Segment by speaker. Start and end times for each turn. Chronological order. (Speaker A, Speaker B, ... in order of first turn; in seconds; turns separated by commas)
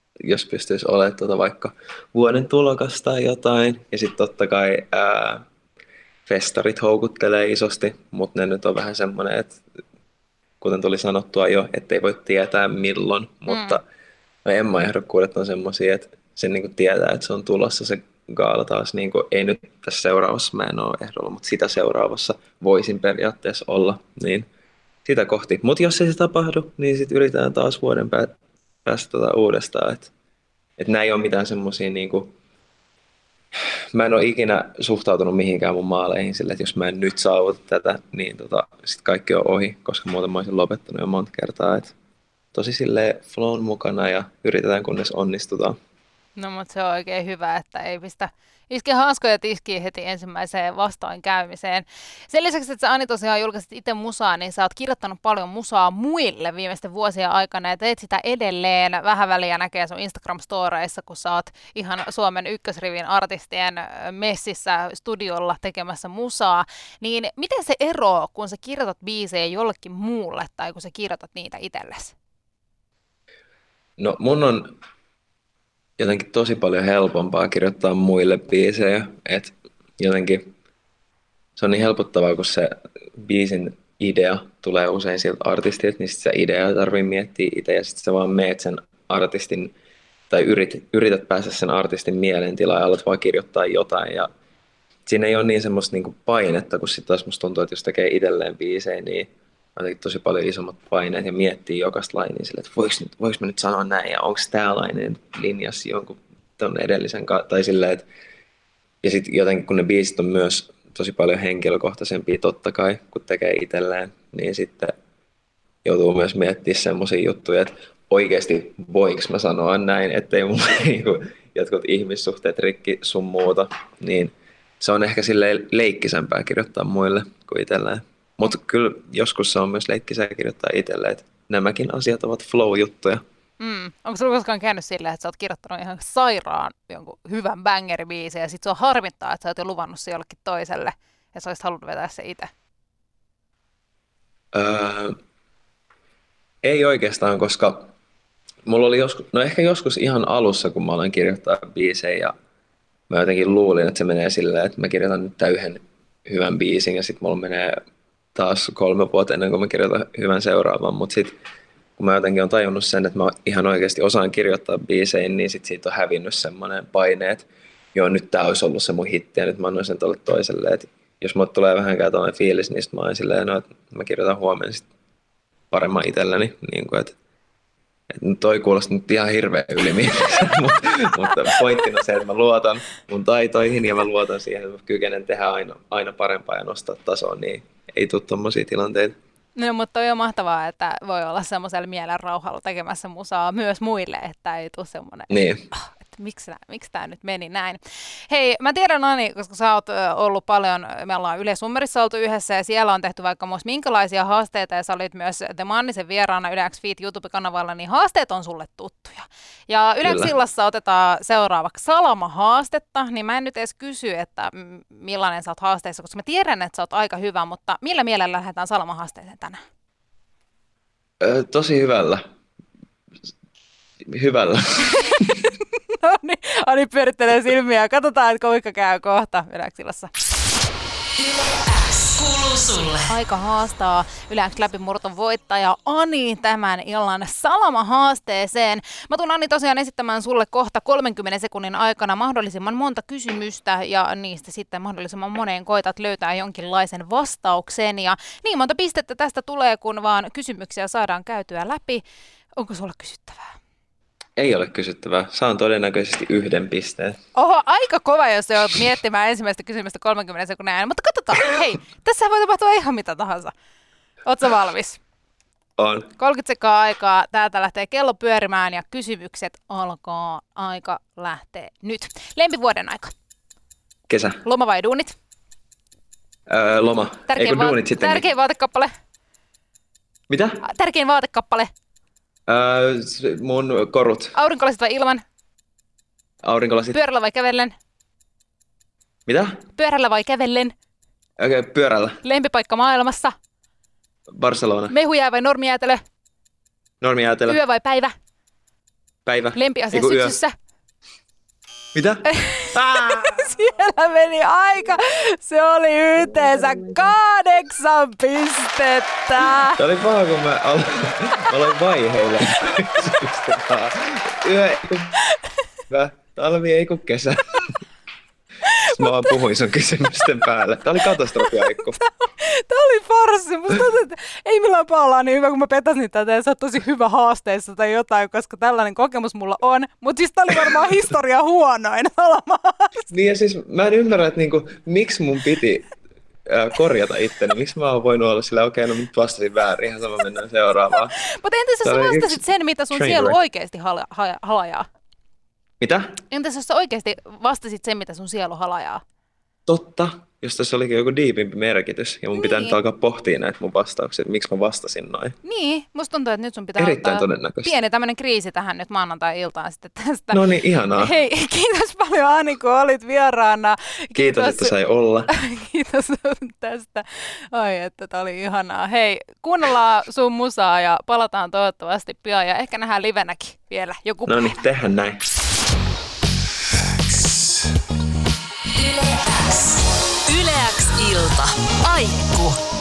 Speaker A: 0.2-5.4, Speaker A: 6.3-9.6, Speaker A: 10.6-13.8, Speaker B: 13.5-13.8, Speaker A: 14.4-24.5, Speaker A: 25.1-30.1, Speaker A: 30.8-32.3, Speaker A: 33.9-41.9, Speaker A: 42.5-45.8, Speaker B: 46.4-72.2, Speaker A: 74.0-74.7, Speaker A: 76.0-80.5, Speaker A: 81.6-89.7, Speaker A: 90.3-94.3, Speaker A: 95.1-108.0, Speaker A: 109.0-114.9, Speaker A: 115.8-133.2, Speaker B: 133.6-142.5, Speaker A: 144.5-145.2, Speaker A: 146.6-147.9, Speaker A: 148.7-152.3, Speaker A: 153.1-157.8, Speaker A: 158.3-161.3, Speaker A: 162.0-174.9, Speaker A: 175.7-177.2, Speaker A: 178.1-189.1, Speaker B: 189.6-219.6, Speaker A: 195.3-195.7, Speaker A: 210.0-210.3, Speaker A: 221.2-222.2, Speaker A: 224.1-225.3, Speaker B: 226.0-230.1, Speaker C: 231.7-233.0, Speaker B: 233.1-252.0, Speaker B: 252.6-253.6, Speaker A: 254.4-257.2, Speaker B: 257.4-263.5, Speaker B: 264.3-265.0, Speaker A: 265.8-266.1, Speaker B: 266.2-273.1, Speaker A: 274.1-274.4, Speaker B: 274.4-275.1, Speaker A: 276.5-278.3, Speaker B: 277.3-278.9, Speaker A: 280.3-280.6, Speaker B: 280.6-281.7, Speaker A: 282.5-284.3, Speaker B: 284.4-285.2, Speaker A: 286.4-287.0, Speaker B: 286.9-287.7, Speaker A: 289.3-289.6, Speaker B: 289.8-290.7, Speaker A: 291.4-292.2, Speaker B: 292.2-293.3, Speaker A: 294.3-294.9, Speaker B: 294.9-296.0, Speaker A: 297.0-297.6, Speaker B: 297.5-298.1, Speaker A: 299.3-300.4, Speaker B: 299.5-300.5, Speaker A: 301.9-303.4, Speaker B: 302.3-309.8, Speaker A: 309.4-315.1, Speaker A: 315.9-317.8, Speaker B: 318.7-319.4, Speaker A: 318.9-322.0, Speaker B: 321.1-333.1, Speaker A: 333.1-335.9, Speaker A: 336.5-341.2, Speaker B: 341.2-344.9, Speaker A: 341.8-343.4, Speaker A: 345.8-346.2, Speaker B: 346.3-349.0, Speaker A: 349.7-355.4, Speaker B: 352.3-352.8, Speaker B: 355.4-360.4, Speaker A: 356.8-357.7, Speaker A: 360.3-361.1, Speaker B: 361.0-364.8, Speaker A: 364.2-365.3, Speaker B: 365.3-374.6, Speaker A: 374.3-375.2, Speaker C: 378.8-382.6